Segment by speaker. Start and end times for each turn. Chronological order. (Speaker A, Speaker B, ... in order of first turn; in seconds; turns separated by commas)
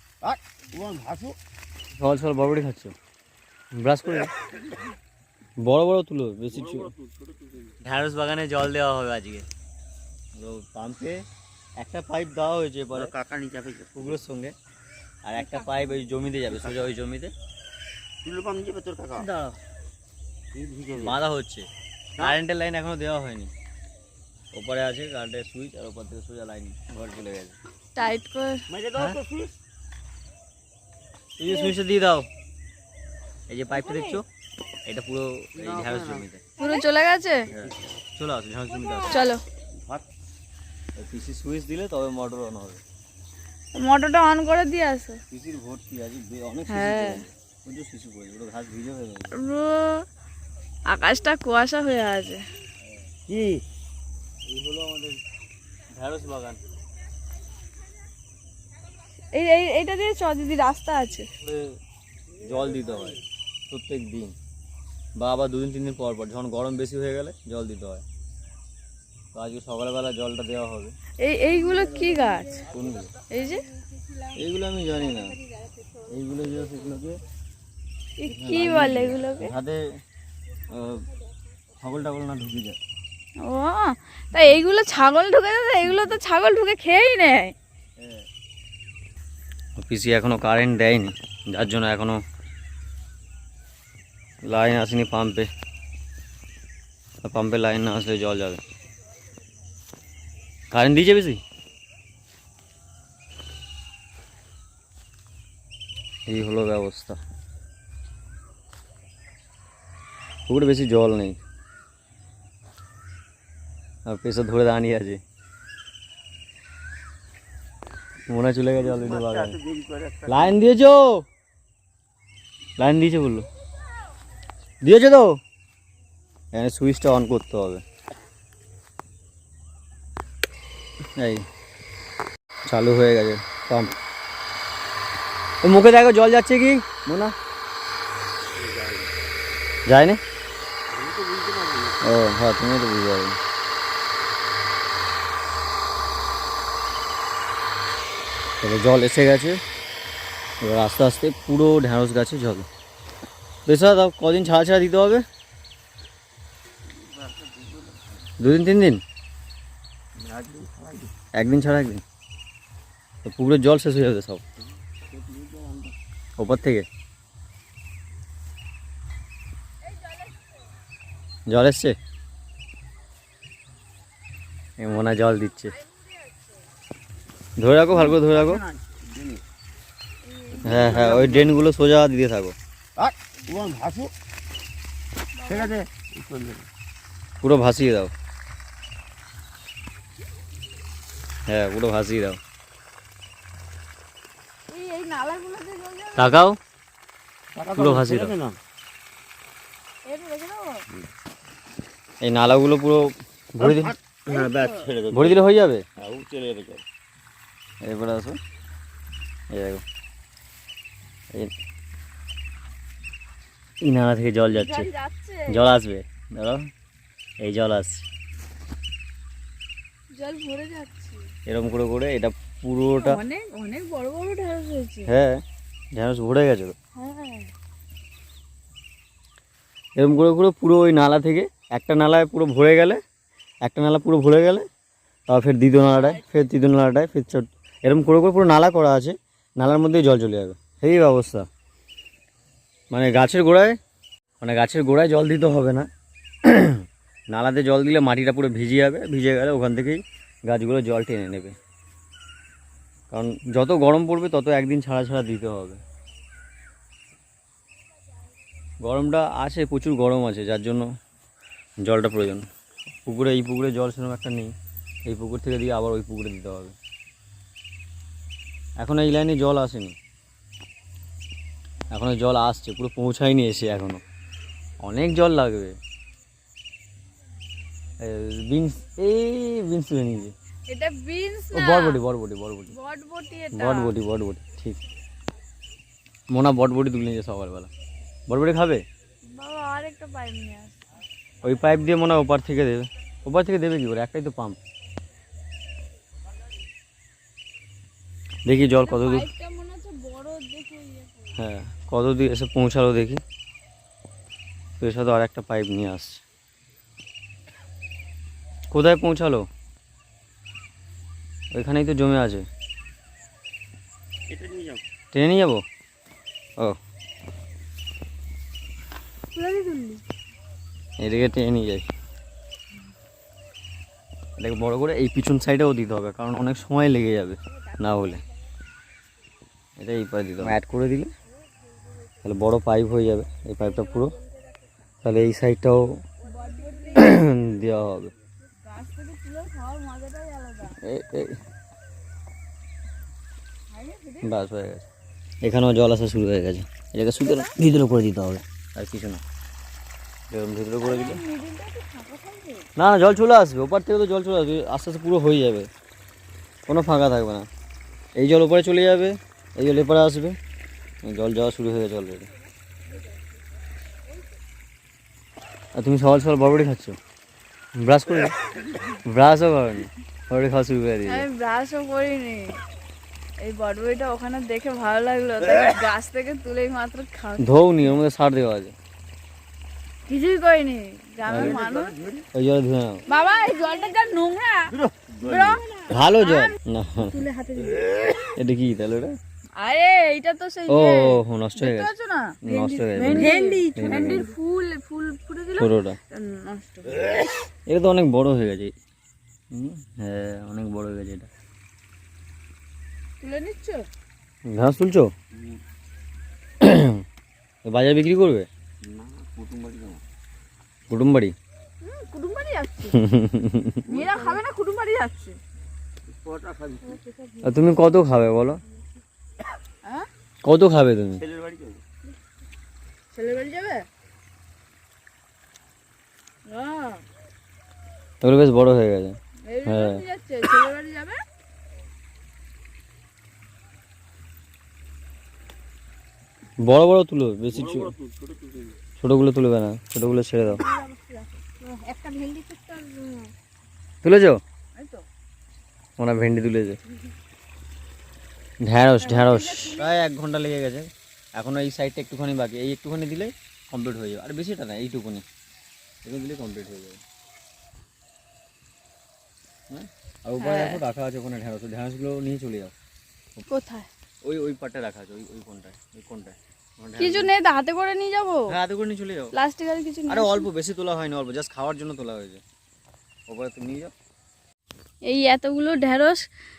Speaker A: 0.2-1.4, Speaker B: 1.9-3.0, Speaker B: 3.8-4.3, Speaker B: 5.6-6.9, Speaker A: 6.6-7.7, Speaker B: 7.8-9.5, Speaker B: 10.3-11.2, Speaker B: 11.8-13.1, Speaker A: 13.0-14.1, Speaker B: 13.9-14.5, Speaker B: 15.2-17.3, Speaker A: 18.2-19.3, Speaker B: 19.2-19.6, Speaker A: 20.5-21.2, Speaker B: 20.9-23.5, Speaker B: 24.5-27.6, Speaker C: 27.9-28.7, Speaker A: 28.7-29.5, Speaker B: 31.4-32.3, Speaker B: 33.5-34.3, Speaker C: 33.8-34.2, Speaker B: 34.9-36.5, Speaker A: 35.6-36.2, Speaker C: 36.6-37.5, Speaker B: 37.5-39.3, Speaker C: 39.1-39.4, Speaker B: 41.0-42.8, Speaker C: 43.7-45.2, Speaker B: 45.3-49.4, Speaker C: 46.7-47.2, Speaker C: 49.3-50.1, Speaker C: 50.9-52.5, Speaker A: 53.3-53.6, Speaker B: 54.5-55.2, Speaker B: 55.9-56.6, Speaker C: 59.3-61.3, Speaker B: 61.4-61.7, Speaker B: 62.4-64.3, Speaker B: 65.2-68.0, Speaker B: 69.3-71.0, Speaker C: 71.2-72.7, Speaker B: 72.7-73.1, Speaker C: 73.3-73.7, Speaker B: 74.3-75.4, Speaker B: 76.1-77.2, Speaker C: 78.2-79.5, Speaker B: 78.3-80.0, Speaker B: 80.7-81.1, Speaker B: 81.8-82.8, Speaker C: 83.4-87.6, Speaker B: 88.0-88.2, Speaker B: 89.8-92.2, Speaker B: 94.4-95.5, Speaker B: 97.2-98.6, Speaker B: 100.7-101.4, Speaker B: 106.3-107.2, Speaker B: 110.5-111.4, Speaker B: 114.1-115.2, Speaker B: 118.3-119.6, Speaker A: 118.8-120.6, Speaker B: 120.3-121.2, Speaker B: 122.8-123.5, Speaker B: 124.8-125.4, Speaker B: 126.5-127.8, Speaker B: 131.2-131.5, Speaker B: 132.7-134.0, Speaker B: 135.6-137.3, Speaker A: 138.6-139.1, Speaker B: 139.9-140.2, Speaker A: 140.9-142.1, Speaker B: 142.0-143.4, Speaker B: 148.6-149.6, Speaker B: 150.6-152.7, Speaker B: 153.7-155.2, Speaker A: 157.0-157.9, Speaker B: 158.4-159.0, Speaker A: 160.2-161.1, Speaker B: 161.3-162.0, Speaker B: 163.2-164.4, Speaker A: 165.1-165.9, Speaker B: 166.4-166.9, Speaker B: 171.5-172.0, Speaker B: 174.8-175.8, Speaker B: 177.6-178.6, Speaker A: 178.1-179.4, Speaker C: 180.3-181.1, Speaker B: 180.6-182.6, Speaker A: 180.7-181.5, Speaker A: 183.0-184.1, Speaker C: 185.3-185.7, Speaker A: 185.5-186.7, Speaker B: 187.4-188.1, Speaker B: 191.5-192.4, Speaker C: 194.7-196.4, Speaker B: 196.2-196.6, Speaker A: 197.6-198.6, Speaker B: 197.7-198.4, Speaker C: 200.1-200.8, Speaker B: 202.2-204.0, Speaker A: 203.7-205.4, Speaker C: 204.3-204.9, Speaker B: 205.1-205.9, Speaker A: 206.0-206.8, Speaker B: 207.8-208.4, Speaker B: 209.5-209.8, Speaker B: 213.8-214.9, Speaker C: 214.5-215.7, Speaker B: 215.5-216.7, Speaker B: 217.4-218.1, Speaker C: 220.1-221.3, Speaker B: 221.5-223.2, Speaker C: 223.0-225.1, Speaker B: 225.1-225.4, Speaker B: 225.9-226.8, Speaker C: 226.9-227.5, Speaker B: 230.0-233.0, Speaker B: 233.6-234.7, Speaker B: 235.3-241.5, Speaker C: 235.9-236.2, Speaker B: 242.9-243.8, Speaker B: 244.4-245.9, Speaker B: 246.4-251.6, Speaker B: 253.1-255.8, Speaker B: 258.8-260.9, Speaker B: 261.8-262.5, Speaker B: 263.1-264.5, Speaker B: 265.1-266.8, Speaker B: 268.8-270.0, Speaker B: 271.9-274.0, Speaker B: 274.8-275.8, Speaker B: 278.0-280.3, Speaker C: 280.7-282.0, Speaker B: 281.5-282.8, Speaker C: 282.7-283.9, Speaker B: 283.5-284.8, Speaker B: 286.3-287.7, Speaker B: 288.3-288.9, Speaker C: 289.3-290.8, Speaker B: 291.4-294.6, Speaker B: 298.5-299.3, Speaker C: 298.6-301.4, Speaker B: 301.4-303.2, Speaker B: 304.8-306.2, Speaker B: 308.7-309.5, Speaker B: 311.5-312.5, Speaker A: 314.3-314.8, Speaker B: 315.1-315.6, Speaker C: 319.4-320.0, Speaker B: 321.0-321.9, Speaker B: 324.4-328.2, Speaker B: 329.8-331.1, Speaker B: 332.2-334.2, Speaker C: 333.7-334.1, Speaker B: 335.0-336.0, Speaker C: 336.2-337.4, Speaker B: 336.9-338.1, Speaker C: 338.6-340.8, Speaker B: 340.8-341.4, Speaker C: 343.7-344.3, Speaker B: 344.2-344.9, Speaker B: 345.4-349.2, Speaker C: 347.2-347.5, Speaker B: 350.3-351.2, Speaker C: 350.8-352.7, Speaker B: 352.8-355.7, Speaker B: 356.7-357.5, Speaker B: 358.1-360.4, Speaker B: 361.0-362.3, Speaker B: 365.8-367.0, Speaker B: 367.8-368.4, Speaker B: 369.1-371.3, Speaker C: 371.1-372.6, Speaker C: 373.4-378.0, Speaker B: 377.4-378.8, Speaker C: 380.1-382.0, Speaker B: 381.3-381.6, Speaker A: 381.3-382.2, Speaker B: 382.3-383.1, Speaker C: 383.1-388.1, Speaker A: 384.8-385.8, Speaker B: 385.9-387.3, Speaker B: 388.2-389.1, Speaker C: 389.6-397.2, Speaker B: 390.7-391.9, Speaker B: 392.4-394.3, Speaker B: 395.6-396.0, Speaker B: 397.7-398.7, Speaker B: 399.5-401.3, Speaker C: 403.2-403.9, Speaker B: 404.5-405.1, Speaker B: 406.6-407.0, Speaker B: 407.6-408.5, Speaker A: 408.8-410.0, Speaker B: 410.9-411.4, Speaker C: 411.8-413.0, Speaker B: 412.9-413.9, Speaker C: 413.9-415.4, Speaker A: 413.9-414.4, Speaker A: 416.1-417.0, Speaker C: 416.9-417.8, Speaker B: 417.4-418.6, Speaker B: 420.4-421.2, Speaker A: 421.2-421.8, Speaker C: 423.1-423.9, Speaker C: 426.5-427.0, Speaker B: 428.2-430.0, Speaker C: 429.4-431.2, Speaker B: 436.6-438.0, Speaker A: 437.7-438.8, Speaker B: 439.0-440.6, Speaker C: 440.5-443.3, Speaker B: 444.0-444.4, Speaker C: 444.8-445.1, Speaker B: 446.0-446.8, Speaker B: 448.6-455.2, Speaker C: 449.0-449.9, Speaker B: 456.0-457.0, Speaker B: 459.7-462.7, Speaker C: 460.4-460.8, Speaker C: 463.5-463.9, Speaker B: 464.2-467.3, Speaker C: 467.0-468.5, Speaker B: 468.5-469.3, Speaker C: 469.3-470.5, Speaker B: 470.1-472.4, Speaker B: 473.3-473.9, Speaker C: 475.1-476.2